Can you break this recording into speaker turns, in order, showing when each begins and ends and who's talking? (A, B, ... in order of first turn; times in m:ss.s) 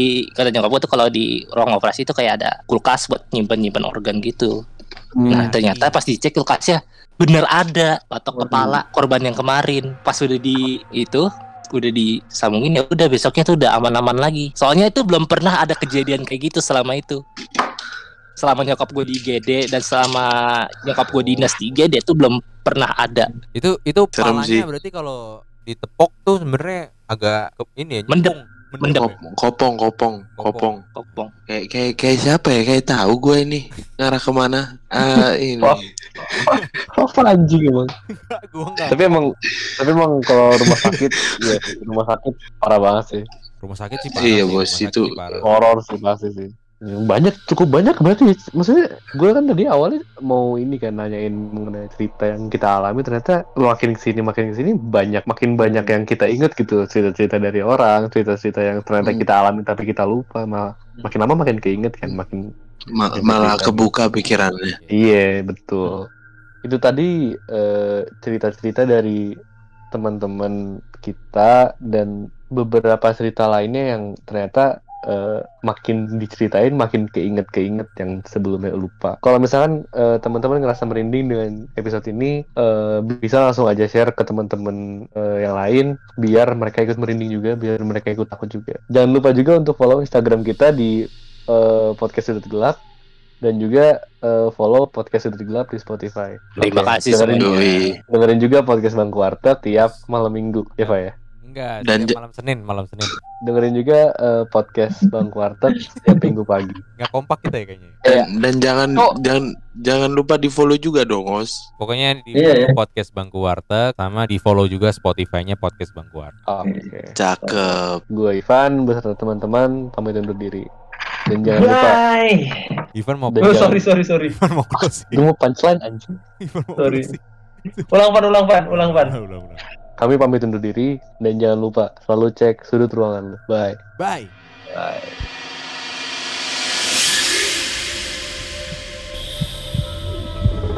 0:00.4-0:04.5 A
0:05.2-0:05.5 B
0:05.3-0:17.2 A
0:05.3-0:06.0 C
0:18.4-0:23.3 A
0:21.1-0:21.5 C
0:23.5-0:29.2 C
0:24.1-0:24.7 D
0:28.1-0:29.1 A
0:29.2-0:30.8 D
0:30.4-0:31.2 C
0:31.0-0:31.3 A
0:31.5-0:36.5 D
0:35.1-0:35.8 B
0:36.3-0:37.9 B
0:38.1-0:39.1 C
0:38.9-0:43.2 B
0:39.5-0:39.8 D
0:40.6-0:41.7 D
0:43.6-0:45.5 C
0:44.1-0:45.4 D
0:45.4-1:02.4 B
1:02.9-1:04.8 D
1:03.1-1:03.8 B
1:04.7-1:05.0 C
1:04.9-1:06.0 B
1:06.6-1:09.2 B
1:09.9-1:30.9 B
1:31.5-1:32.8 B
1:33.4-1:37.5 B
1:36.6-1:37.6 A
1:37.4-1:38.0 D
1:38.1-1:41.1 B
1:40.8-1:43.1 C
1:41.8-1:42.2 D
1:43.4-1:46.8 B
1:47.0-1:48.0 C
1:48.1-1:51.5 D
1:51.8-1:56.3 C
1:52.3-1:52.7 E
1:56.5-1:57.1 B
1:57.2-1:58.0 D
1:57.4-1:57.7 E
1:58.2-2:00.6 B
2:01.1-2:02.4 E
2:01.3-2:02.0 B
2:03.0-2:05.2 C
2:03.3-2:03.8 B
2:03.4-2:04.3 E
2:05.1-2:06.1 B
2:06.4-2:07.9 C
2:06.8-2:07.1 E
2:07.9-2:09.1 E
2:08.7-2:09.6 C
2:10.0-2:13.8 B
2:14.0-2:14.3 C
2:14.7-2:15.1 E